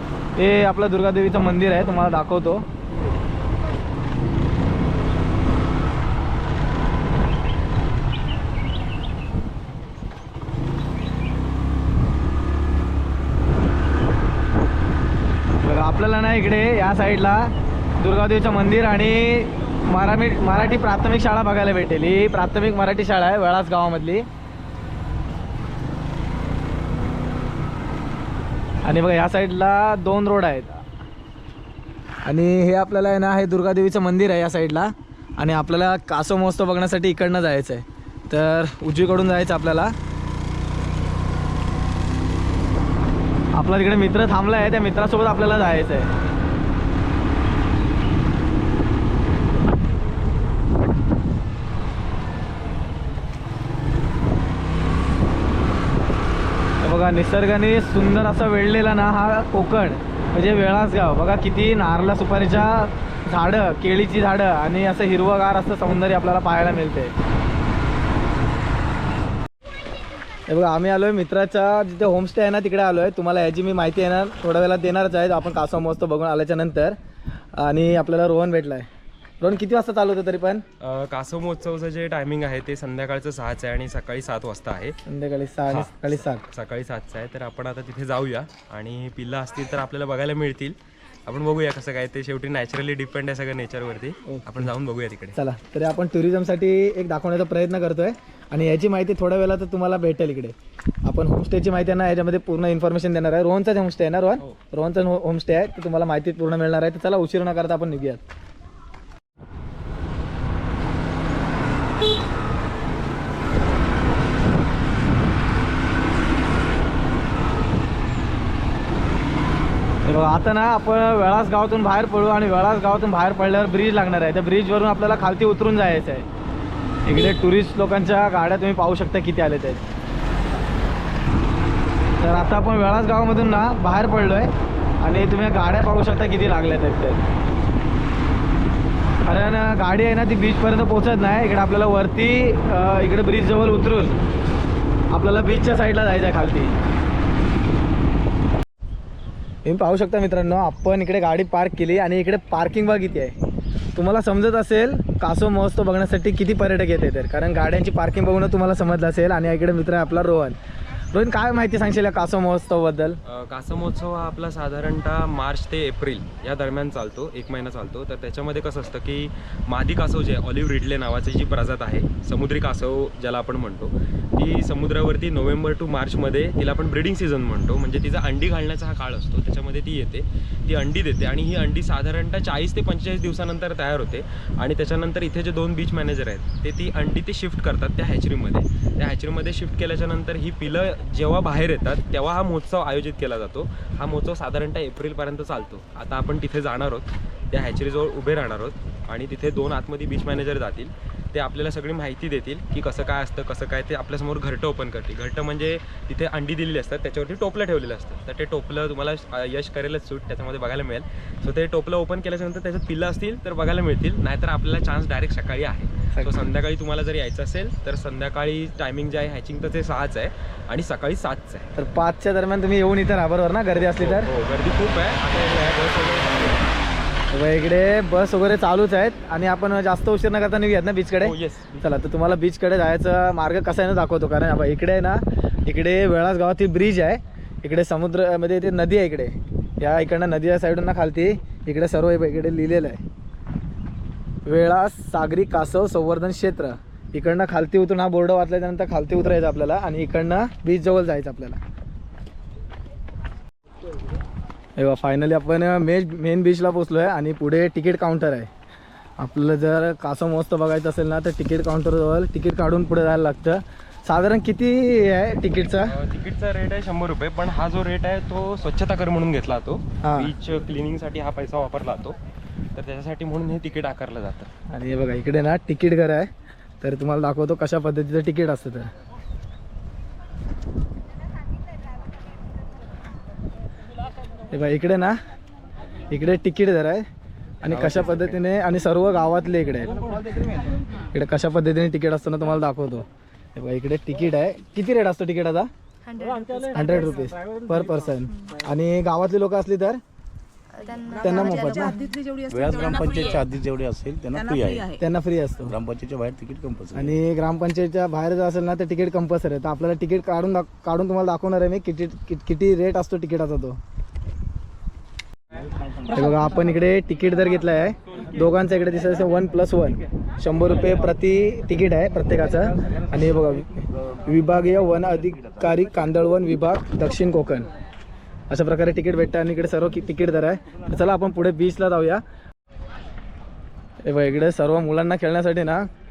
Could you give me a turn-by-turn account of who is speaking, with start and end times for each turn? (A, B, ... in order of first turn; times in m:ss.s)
0:00.4-0:02.6 A
0:15.6-0:24.2 A
0:28.8-0:30.8 A
0:32.2-0:39.9 A
0:43.5-0:46.1 A
0:56.8-1:07.1 A
1:10.5-1:17.0 A
1:17.5-1:18.9 A
1:19.4-1:20.6 A
1:20.8-1:25.0 B
1:25.0-1:26.4 A
1:25.7-1:35.4 B
1:34.3-1:34.6 A
1:35.3-1:48.2 A
2:00.0-2:06.2 A
2:07.0-2:09.8 A
2:12.2-2:14.5 A
2:15.0-2:17.2 A
2:19.2-2:24.2 A
2:25.1-2:26.7 A
2:29.6-2:33.3 A
2:33.9-2:40.6 A
2:41.1-2:43.2 A
2:43.2-3:41.7 B
3:41.8-3:44.3 A
3:43.9-3:46.6 B
3:47.3-4:03.0 A
3:51.2-3:51.8 B
4:04.4-4:11.6 A
4:14.8-4:18.5 A
4:19.2-4:25.9 A
4:25.8-4:32.2 B
4:30.0-4:30.3 A
4:32.7-4:34.5 B
4:34.7-4:36.3 A
4:36.8-4:38.9 A
4:44.5-4:45.2 A
4:46.1-4:47.0 A
4:47.6-4:50.0 A
4:47.6-4:48.4 B
4:51.1-4:55.7 A
4:56.7-5:00.0 A
5:01.2-5:02.0 A
5:02.3-5:05.0 C
5:05.0-5:05.7 A
5:05.6-5:07.1 C
5:06.9-5:13.8 A
5:16.0-5:27.7 A
5:28.5-5:32.2 A
5:34.0-5:35.9 A